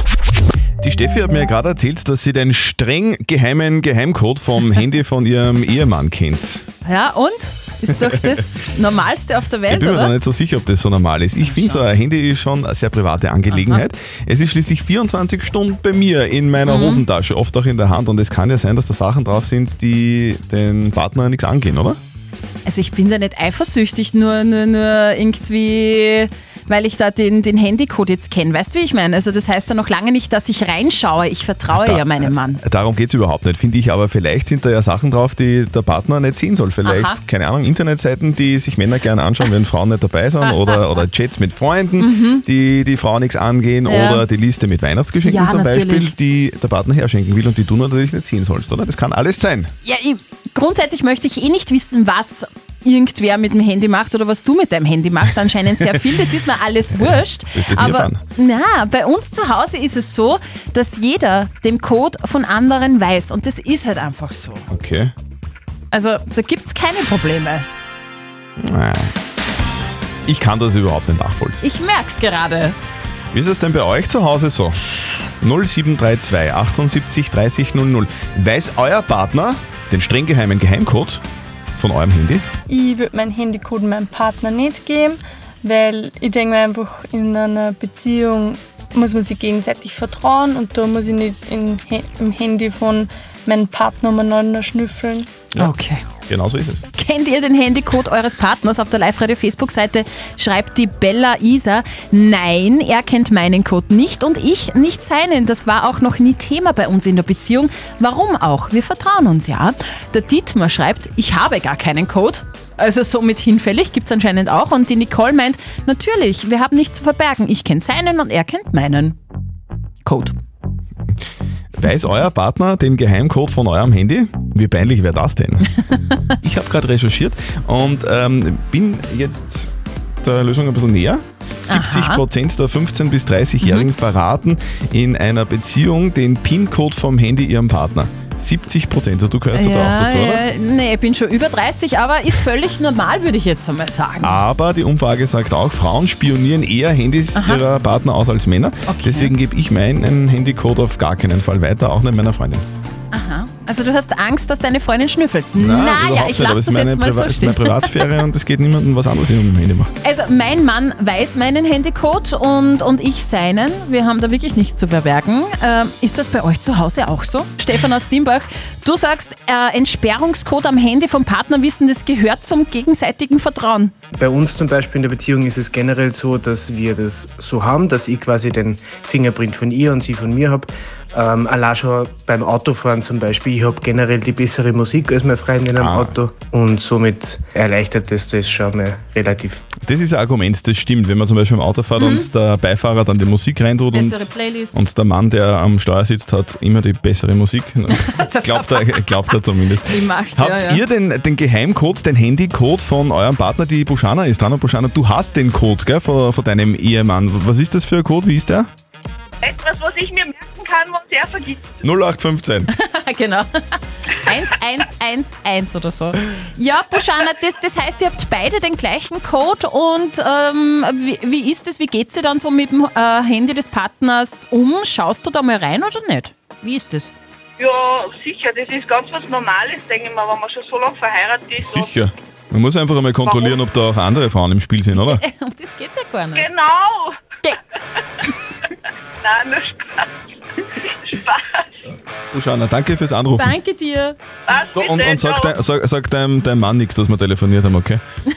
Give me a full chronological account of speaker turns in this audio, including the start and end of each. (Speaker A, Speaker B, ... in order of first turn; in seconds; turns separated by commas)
Speaker A: 0.8-6.6, Speaker B: 6.8-10.1, Speaker A: 9.7-22.0, Speaker B: 13.5-13.8, Speaker B: 16.7-17.0, Speaker B: 22.6-32.6, Speaker A: 31.7-49.7, Speaker B: 36.8-37.2, Speaker B: 42.0-42.4, Speaker B: 43.9-44.2, Speaker B: 45.2-46.1, Speaker B: 49.8-64.7, Speaker A: 57.5-58.2, Speaker A: 64.7-65.1, Speaker B: 65.9-67.7, Speaker A: 68.6-69.1, Speaker A: 70.3-71.6, Speaker B: 71.6-72.8, Speaker A: 73.3-74.8, Speaker A: 75.4-81.2, Speaker A: 81.8-82.4, Speaker C: 82.7-95.3, Speaker B: 95.6-96.0, Speaker A: 96.3-96.8, Speaker B: 96.9-119.2, Speaker B: 120.0-120.3, Speaker A: 121.8-129.7, Speaker A: 130.2-140.4, Speaker B: 131.7-132.2, Speaker B: 133.6-133.9, Speaker B: 139.5-144.4, Speaker A: 144.2-152.7, Speaker B: 147.3-147.6, Speaker B: 148.9-149.3, Speaker B: 153.1-158.0, Speaker A: 155.6-159.9, Speaker B: 160.0-173.9, Speaker D: 174.2-189.6, Speaker A: 185.8-186.2, Speaker A: 189.8-208.7, Speaker B: 192.0-192.3, Speaker B: 193.9-194.8, Speaker B: 197.9-199.4, Speaker B: 199.9-200.8, Speaker E: 209.4-211.7, Speaker A: 211.8-212.7, Speaker B: 212.7-227.1, Speaker E: 227.6-231.9, Speaker A: 231.6-235.2, Speaker E: 233.3-233.6, Speaker B: 235.0-236.5, Speaker E: 236.4-237.2, Speaker E: 239.2-240.1, Speaker E: 241.1-241.6, Speaker A: 242.3-243.6, Speaker B: 243.4-244.2, Speaker E: 244.5-245.5, Speaker A: 244.8-248.0